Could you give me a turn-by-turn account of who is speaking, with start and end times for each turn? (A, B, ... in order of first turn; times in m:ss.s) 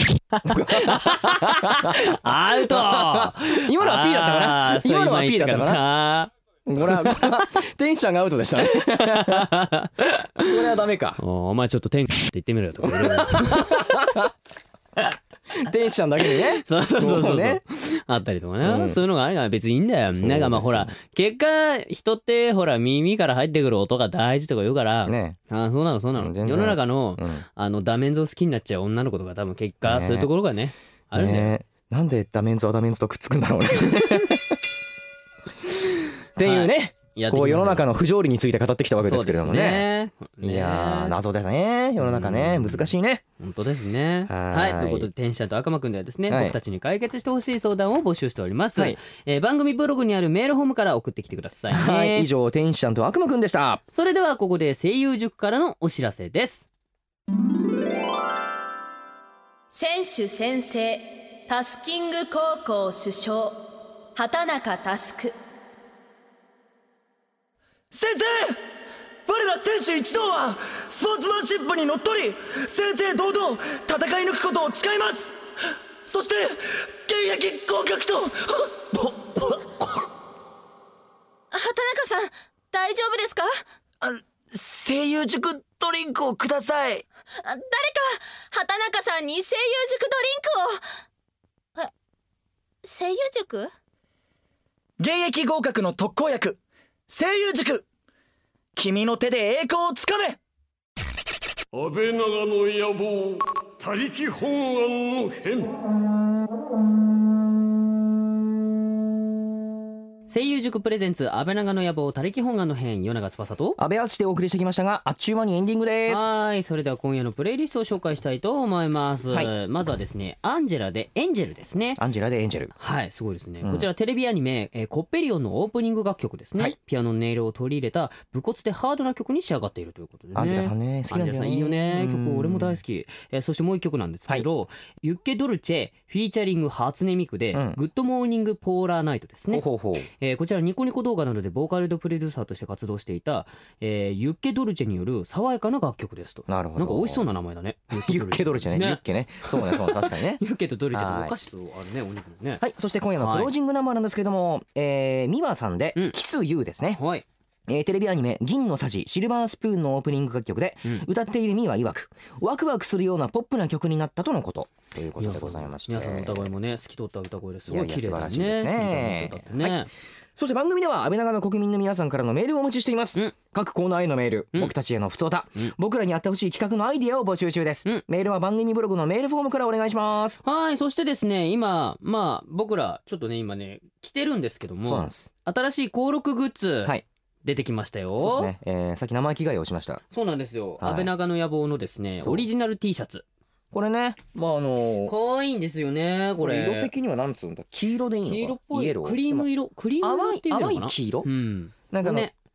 0:00.3-0:06.3 A
0:00.4-0:05.8 B
0:06.6-0:09.5 B
0:06.8-0:07.3 A
0:08.8-0:10.5 A
0:10.4-0:11.2 B
0:11.2-0:14.0 A
0:12.8-0:14.3 B
0:15.6-0:17.6 B
0:16.3-0:31.5 A
0:18.6-0:19.0 B
0:20.2-0:20.9 B
0:25.0-0:25.4 B
0:26.2-0:27.4 B
0:29.8-0:30.3 B
0:31.1-0:34.6 B
0:36.4-0:39.9 B
0:36.4-0:37.9 A
0:39.0-0:41.1 A
0:40.4-0:43.2 B
0:42.0-0:52.3 A
0:44.3-0:45.1 B
0:46.3-0:46.6 B
0:51.7-0:53.8 B
0:53.9-0:56.7 A
0:59.7-1:05.3 C
1:07.9-1:08.6 D
1:09.2-1:15.4 D
1:16.0-1:20.1 D
1:21.5-1:23.6 C
1:24.0-1:27.0 D
1:27.4-1:30.8 C
1:32.8-1:33.7 C
1:35.0-1:37.8 D
1:38.7-1:40.4 D
1:41.7-1:45.7 E
1:50.3-1:53.8 A
1:53.8-1:56.2 B
1:56.1-2:02.0 A
2:02.0-2:02.7 B
2:02.8-2:19.6 A
2:03.6-2:03.9 B
2:10.3-2:12.8 B
2:17.5-2:17.8 B
2:19.5-2:20.1 B
2:20.2-2:32.6 A
2:26.5-2:27.2 B
2:27.9-2:30.4 B
2:30.9-2:31.3 B
2:32.6-2:37.0 B
2:33.2-2:33.5 A
2:37.0-2:37.2 A
2:37.7-2:46.5 B
2:45.2-2:49.9 A
2:47.7-2:49.8 B
2:50.4-3:00.4 B
3:00.4-3:08.5 A
3:04.8-3:05.3 B
3:08.2-3:10.0 B
3:10.1-3:13.2 A
3:10.8-3:11.1 B
3:12.2-3:12.4 B
3:13.7-3:15.1 B
3:15.0-3:16.9 A
3:16.4-3:19.5 B
3:18.2-3:22.3 A
3:20.0-3:21.3 B
3:21.9-3:22.3 B